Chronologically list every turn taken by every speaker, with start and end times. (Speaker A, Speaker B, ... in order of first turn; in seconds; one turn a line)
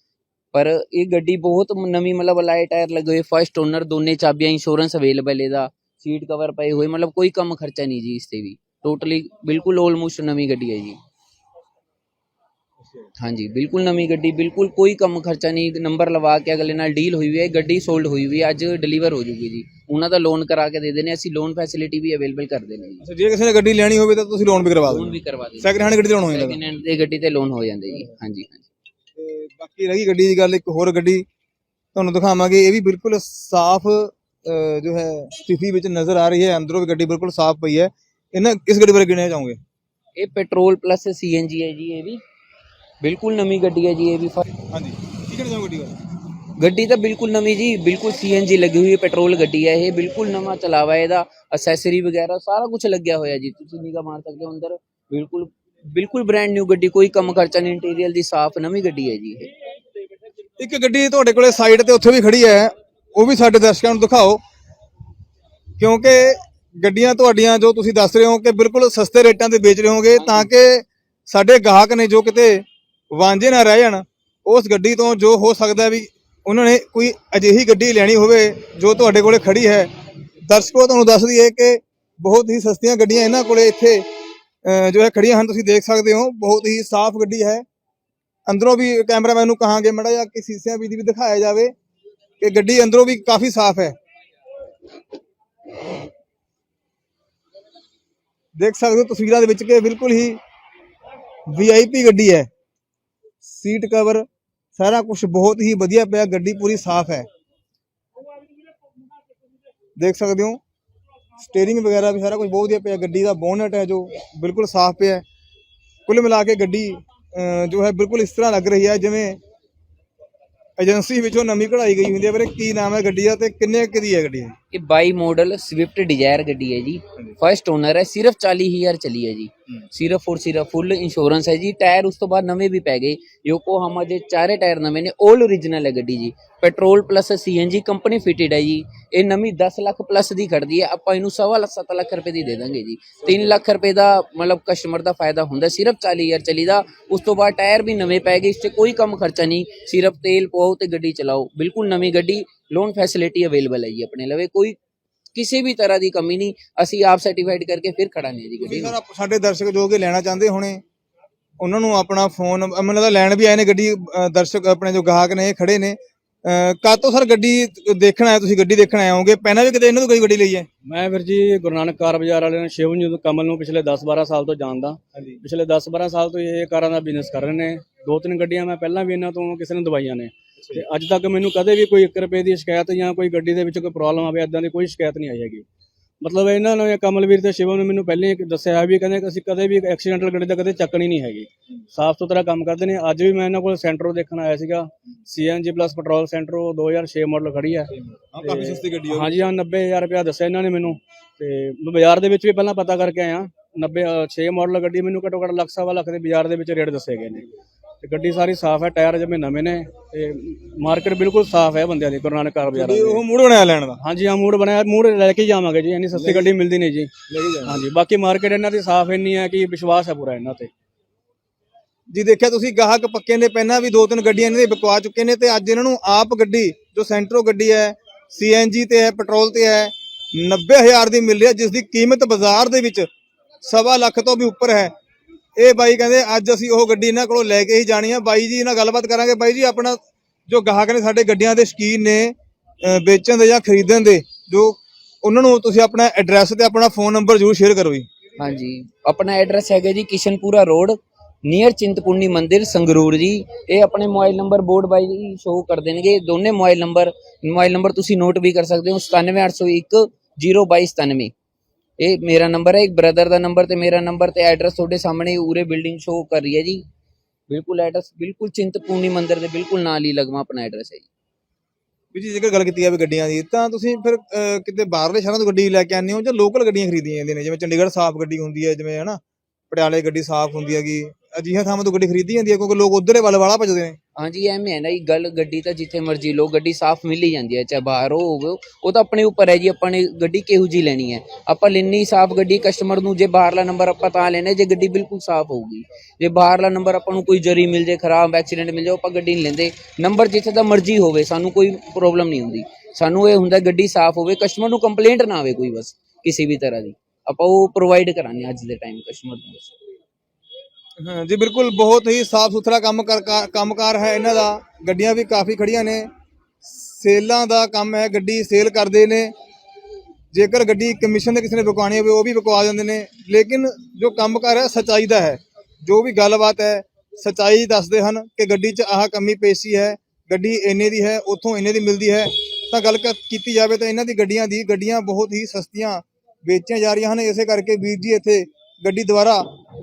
Speaker A: 0.5-11.0
Speaker A: 13.2-23.0
Speaker B: 23.0-26.6
Speaker A: 24.8-28.7
Speaker B: 29.2-31.2
Speaker B: 31.9-39.6
Speaker A: 40.2-42.2
Speaker A: 43.0-44.5
Speaker B: 44.7-46.0
Speaker A: 46.6-59.5
Speaker B: 60.6-64.4
Speaker B: 65.8-79.9
Speaker A: 70.2-70.5
Speaker B: 80.5-84.0
Speaker B: 84.6-87.6
Speaker B: 88.5-91.7
Speaker B: 92.4-93.9
Speaker B: 98.6-100.4
Speaker B: 101.5-102.5
Speaker B: 103.4-107.2
Speaker B: 110.0-110.6
Speaker B: 111.4-115.2
Speaker B: 116.1-119.4
Speaker B: 120.8-124.5
Speaker A: 124.7-154.8
Speaker A: 155.3-159.0
Speaker B: 158.6-160.8
Speaker B: 161.6-170.7
Speaker C: 170.9-185.6
Speaker B: 175.1-175.4
Speaker C: 186.2-197.9
Speaker B: 197.9-199.4
Speaker C: 198.4-207.5
Speaker C: 208.0-213.2
Speaker B: 212.7-214.0
Speaker C: 214.0-217.1
Speaker B: 216.1-216.5
Speaker B: 217.3-217.8
Speaker C: 217.6-220.7
Speaker B: 222.1-233.1
Speaker B: 233.6-234.9
Speaker B: 235.6-248.1
Speaker A: 248.4-261.3
Speaker A: 262.0-266.8
Speaker A: 267.5-271.1
Speaker B: 272.1-279.2
Speaker B: 279.7-284.0
Speaker A: 284.2-309.7
Speaker B: 311.0-316.1
Speaker B: 316.6-319.3
Speaker B: 320.3-339.4